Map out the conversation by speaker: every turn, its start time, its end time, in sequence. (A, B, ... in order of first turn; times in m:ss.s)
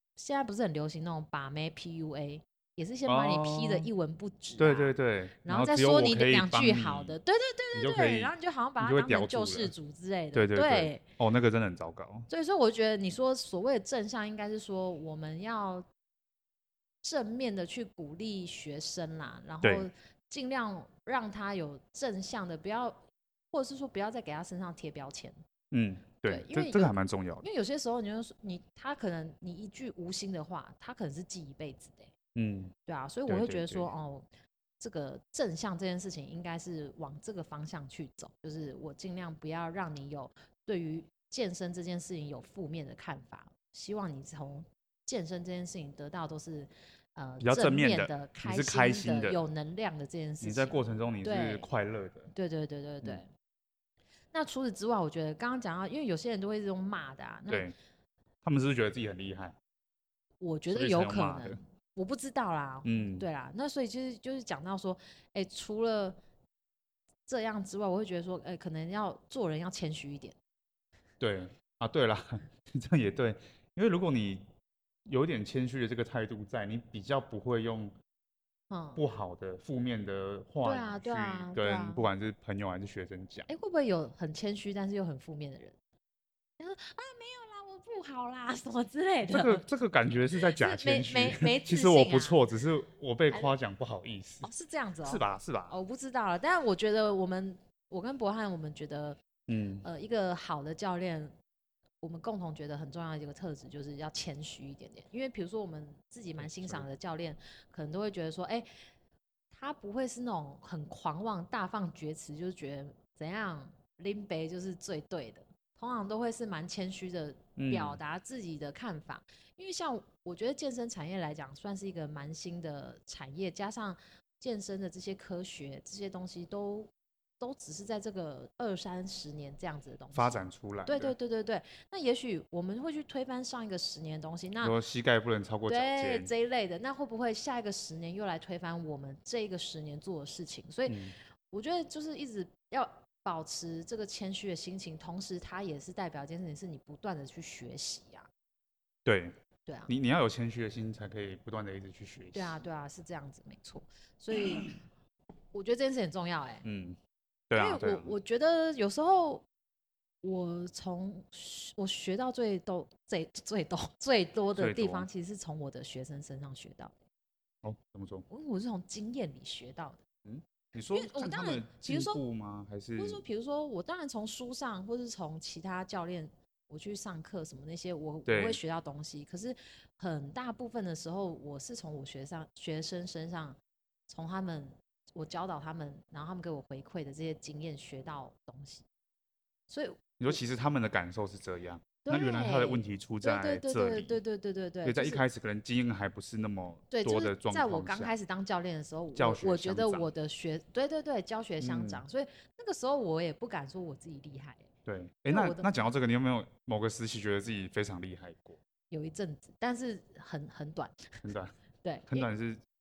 0:00.2-0:11.0 A
0:03.1-0:03.9 B
0:04.6-0:07.2 B
0:07.7-0:09.7 B
0:10.3-0:12.3 B
0:12.3-0:15.9 A
0:17.0-0:25.4 A
0:19.6-0:19.9 B
0:25.7-0:27.5 B
0:26.3-0:32.1 A
0:32.4-0:32.7 B
0:32.9-0:34.3 A
0:33.3-0:33.9 B
0:34.8-0:51.7 A
0:47.4-0:49.4 B
0:50.4-0:52.3 B
0:52.3-0:53.3 A
0:54.3-0:57.7 A
0:57.5-0:57.8 B
0:58.4-0:59.6 B
1:00.4-1:06.2 A
1:00.7-1:01.6 B
1:02.8-1:03.3 B
1:07.3-1:10.4 A
1:11.2-1:14.5 B
1:15.1-1:18.0 B
1:18.7-1:19.0 A
1:19.0-1:23.5 B
1:20.6-1:22.0 A
1:23.5-1:25.8 A
1:26.6-1:29.6 A
1:29.3-1:34.5 B
1:30.4-1:32.4 A
1:34.4-1:39.2 A
1:35.0-1:35.8 B
1:39.5-1:39.8 B
1:39.8-1:41.4 A
1:42.0-1:48.7 A
1:46.4-1:46.9 B
1:49.5-2:14.8 A
1:57.6-1:58.0 B
2:10.1-2:11.2 B
2:14.6-2:16.3 B
2:15.7-2:21.0 A
2:20.9-2:21.2 B
2:21.5-2:28.3 A
2:29.1-2:29.4 B
2:29.7-2:29.9 A
2:29.9-2:32.6 B
2:32.3-2:34.8 A
2:35.5-2:36.6 A
2:36.6-2:37.0 B
2:37.5-2:38.1 B
2:37.6-2:39.4 A
2:40.2-2:47.0 A
2:44.6-2:45.1 B
2:47.6-2:48.2 B
2:48.3-2:50.0 A
2:50.2-2:53.2 B
2:50.9-2:52.2 A
2:53.0-3:08.8 A
2:58.3-2:58.6 B
3:09.7-3:10.4 A
3:10.2-3:14.2 B
3:12.0-3:15.2 A
3:14.8-3:18.1 B
3:16.9-3:24.7 A
3:19.2-3:20.1 B
3:21.6-3:22.0 B
3:24.8-3:28.6 B
3:25.3-3:25.7 A
3:28.9-3:31.1 A
3:31.2-3:31.6 B
3:31.8-3:32.3 A
3:32.1-3:32.6 B